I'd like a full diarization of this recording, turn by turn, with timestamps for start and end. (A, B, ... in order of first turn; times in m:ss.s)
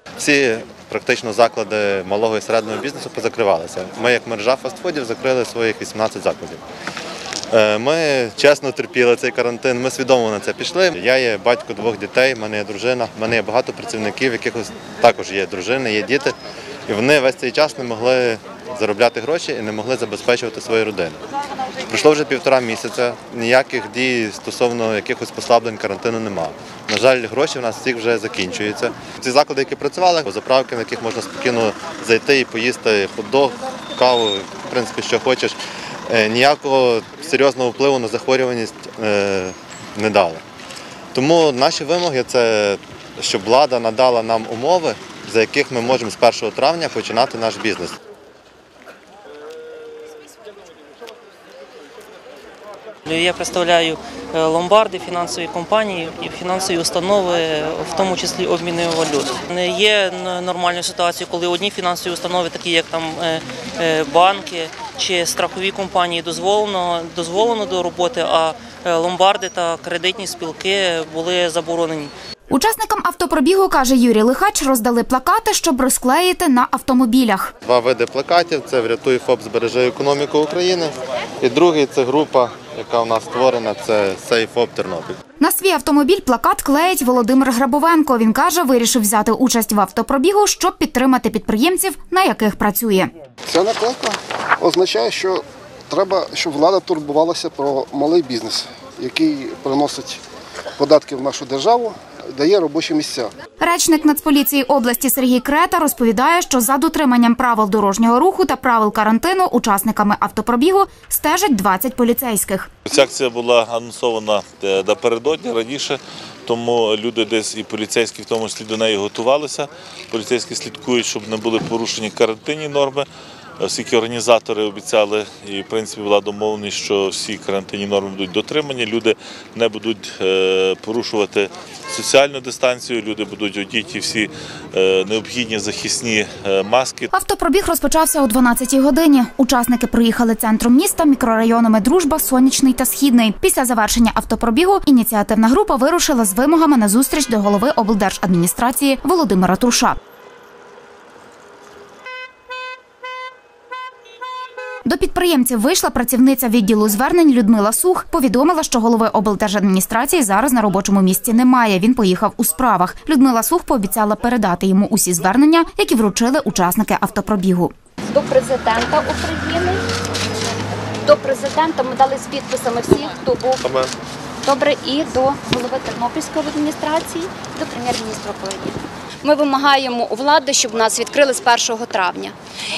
0:00.2-0:06.6 A
0:07.5-0:16.3 A
0:16.9-0:21.2 A
0:21.8-0:35.6 A
0:36.1-0:40.4 A
0:41.1-0:48.0 A
0:53.1-1:12.1 B
1:12.5-1:17.5 C
1:17.6-1:25.2 A
1:25.4-1:33.1 C
1:33.5-1:40.2 D
1:40.8-1:43.3 D
1:43.6-1:52.7 C
1:52.8-2:03.1 E
2:03.6-2:17.1 E
2:17.1-2:30.0 C
2:34.8-2:47.7 C
2:48.0-2:49.8 F
2:51.0-2:53.8 F
2:54.4-3:02.3 F